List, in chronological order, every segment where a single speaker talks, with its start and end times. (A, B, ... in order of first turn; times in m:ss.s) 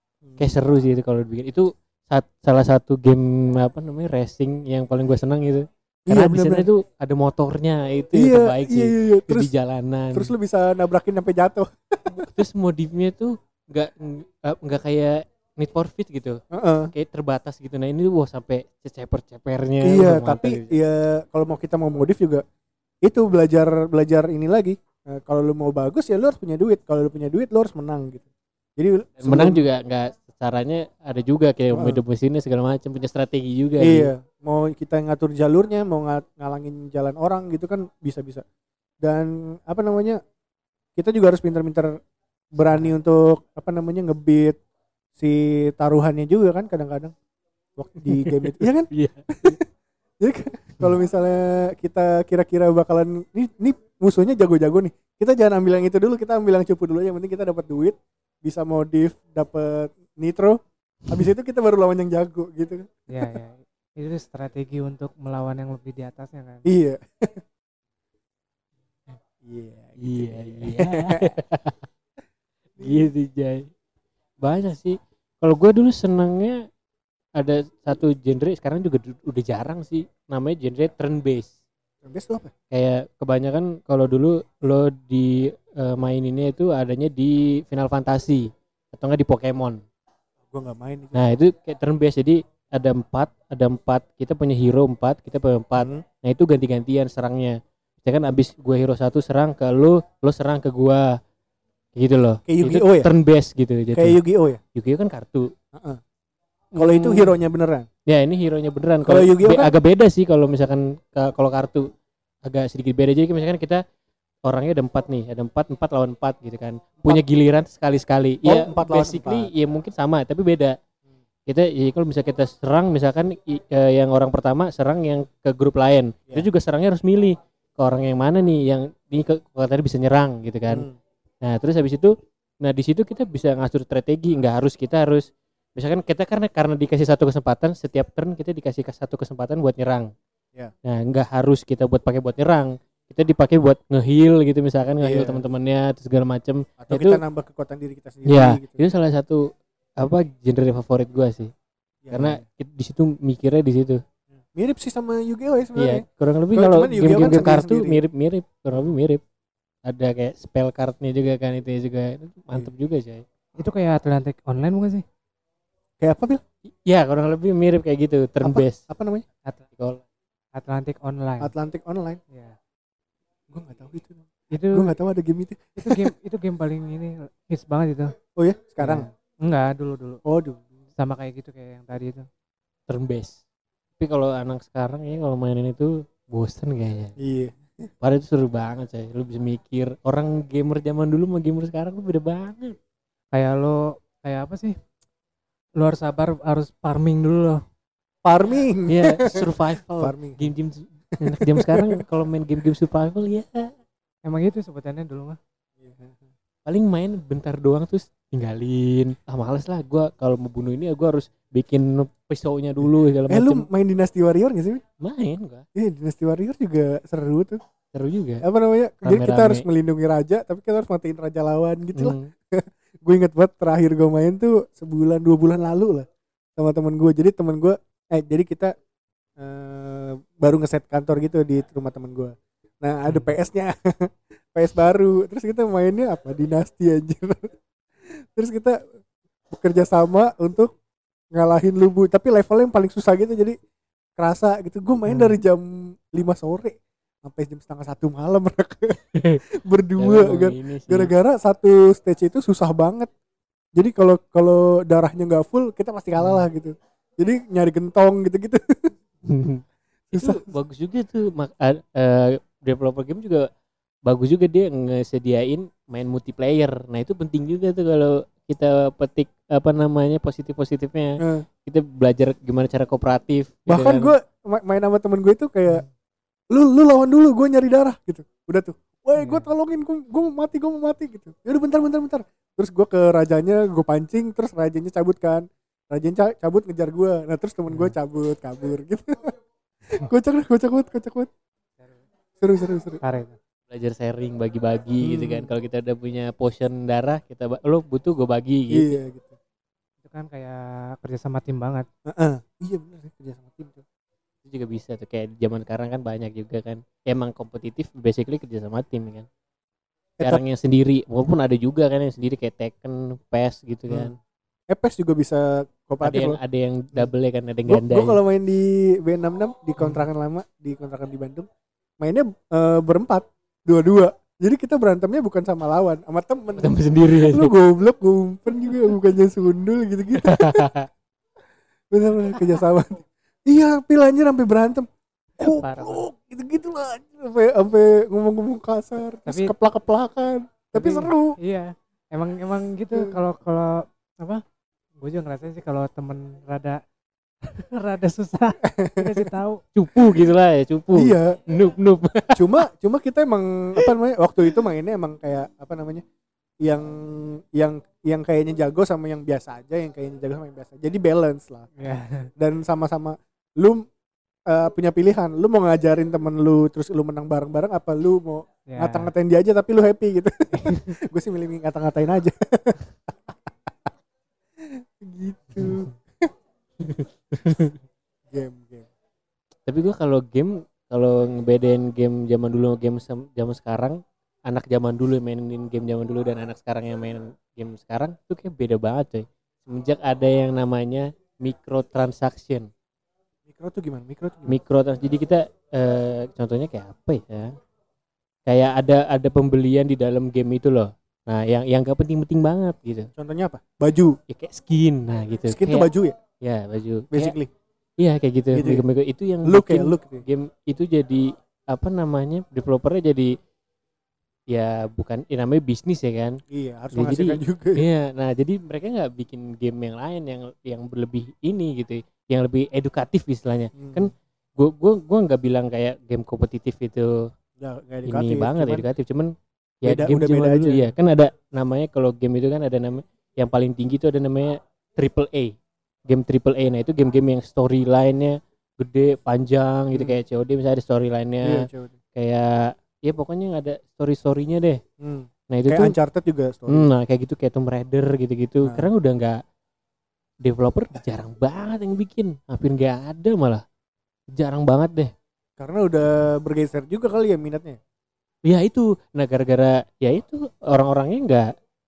0:00.4-0:10.3 A
0:06.1-0:06.7 B
0:08.1-0:09.5 B
0:10.1-0:12.3 B
0:12.2-0:16.4 A
0:16.5-0:16.9 B
0:16.9-0:20.8 A
0:19.8-0:22.4 B
0:23.0-0:28.3 B
0:28.8-0:29.6 B
0:29.2-0:34.1 A
0:31.7-0:32.0 B
0:33.8-0:38.4 B
0:39.0-0:40.2 B
0:41.0-0:41.9 B
0:42.5-0:44.6 B
0:45.2-0:47.1 B
0:47.8-0:49.7 B
0:48.1-0:49.6 A
0:50.2-1:03.4 B
1:03.1-1:06.7 C
1:06.6-1:07.4 B
1:09.4-1:11.4 B
1:10.0-1:11.8 A
1:12.8-1:13.1 B
1:12.8-1:13.7 A
1:14.4-1:16.6 A
1:17.4-1:21.5 A
1:22.0-1:22.5 B
1:22.7-1:29.8 A
1:30.5-1:31.3 B
1:31.2-1:41.1 A
1:42.0-1:44.2 A
1:42.5-1:43.1 B
1:44.0-1:44.6 B
1:44.8-1:45.5 A
1:45.7-1:46.0 B
1:46.8-1:47.3 A
1:46.8-1:47.9 B
1:48.1-1:51.9 A
1:49.0-1:49.7 B
1:52.4-1:53.8 A
1:54.4-2:00.8 A
1:58.4-1:59.5 B
2:01.5-2:10.9 A
2:10.7-2:11.0 B
2:11.4-2:20.1 A
2:20.8-2:27.2 A
2:25.0-2:25.4 B
2:26.8-2:28.8 B
2:28.3-2:31.5 A
2:32.0-2:32.4 B
2:32.1-2:34.0 A
2:34.5-2:38.0 B
2:35.8-2:39.2 A
2:39.8-2:43.2 A
2:43.6-2:45.0 C
2:46.0-2:46.4 B
2:46.8-2:48.8 A
2:48.4-2:49.3 B
2:50.6-2:51.5 C
2:51.4-2:52.2 B
2:52.3-2:52.6 C
2:53.5-2:56.1 B
2:54.5-2:54.9 C
2:55.8-2:58.1 C
2:58.4-2:59.1 B
2:58.8-3:00.2 C
3:00.2-3:00.7 B
3:01.0-3:02.3 C
3:02.9-3:03.4 A
3:04.0-3:07.1 A
3:07.2-3:07.9 B
3:08.0-3:12.8 A
3:13.3-3:14.8 C
3:15.8-3:17.6 C
3:18.2-3:20.5 B
3:18.9-3:23.7 A
3:21.2-3:22.0 B
3:24.2-3:25.4 C
3:25.8-3:26.2 B
3:26.7-3:33.6 A
3:32.8-3:34.8 B
3:35.0-3:35.6 A
3:35.8-3:37.6 B
3:37.9-3:38.4 A
3:38.4-3:48.7 B
3:39.0-3:39.6 A
3:42.0-3:42.3 A
3:49.4-3:57.5 B
3:58.2-3:58.8 B
3:59.5-4:00.7 B
4:01.3-4:03.6 B
4:04.2-4:09.0 B
4:09.2-4:09.4 A
4:09.5-4:13.1 B
4:10.0-4:11.1 A
4:13.8-4:18.9 B
4:19.3-4:19.6 A
4:20.1-4:20.4 B
4:20.1-4:23.5 A
4:24.1-4:34.1 A
4:31.2-4:31.5 B
4:33.7-4:35.8 B
4:36.5-4:49.3 B
4:49.9-4:51.3 B
4:52.4-4:53.0 B
4:53.0-4:53.4 C
4:53.7-4:59.0 A
4:55.0-4:55.5 B
4:58.7-4:59.4 B
5:00.0-5:01.9 C
5:02.1-5:03.8 B
5:04.5-5:09.3 A
5:10.2-5:14.2 A
5:14.7-5:16.4 B
5:16.0-5:18.2 A
5:17.7-5:21.5 B
5:22.0-5:30.7 B
5:26.6-5:27.5 A
5:30.2-5:30.9 A
5:31.9-5:34.9 B
5:35.4-5:41.4 B
5:35.6-5:35.9 C
5:39.3-5:39.6 C
5:40.8-5:44.4 C
5:45.0-5:46.8 C
5:47.4-5:49.6 C
5:48.7-5:49.3 B
5:49.8-5:52.6 A
5:50.9-5:51.4 B
5:52.3-5:56.0 B
5:56.6-6:01.8 B
6:01.8-6:02.3 C
6:02.4-6:03.8 B
6:04.5-6:13.7 B
6:08.7-6:09.1 C
6:10.5-6:10.9 C
6:14.6-6:16.3 B
6:16.8-6:17.7 A
6:18.3-6:18.9 B
6:19.7-6:32.7 A
6:33.5-6:34.6 B
6:34.5-6:37.6 A
6:38.5-6:43.1 A
6:43.2-6:44.2 B
6:44.3-6:45.9 A
6:45.5-6:46.2 B
6:46.4-6:47.4 A
6:47.1-6:47.5 B
6:48.0-6:53.4 A
6:48.5-6:48.8 B
6:49.4-6:50.2 B
6:54.5-6:56.4 A
6:56.5-6:57.8 B
6:57.0-7:07.2 A
7:03.8-7:04.1 B
7:07.6-7:08.9 B
7:08.1-7:09.3 A
7:09.8-7:10.9 B
7:09.8-7:15.5 A
7:16.1-7:24.8 A
7:19.9-7:20.2 B
7:21.4-7:22.0 B
7:25.0-7:26.9 B
7:25.5-7:26.0 A
7:26.7-7:29.4 A
7:30.4-7:33.6 A
7:34.3-7:35.1 A
7:35.6-7:37.8 B
7:38.4-7:41.4 A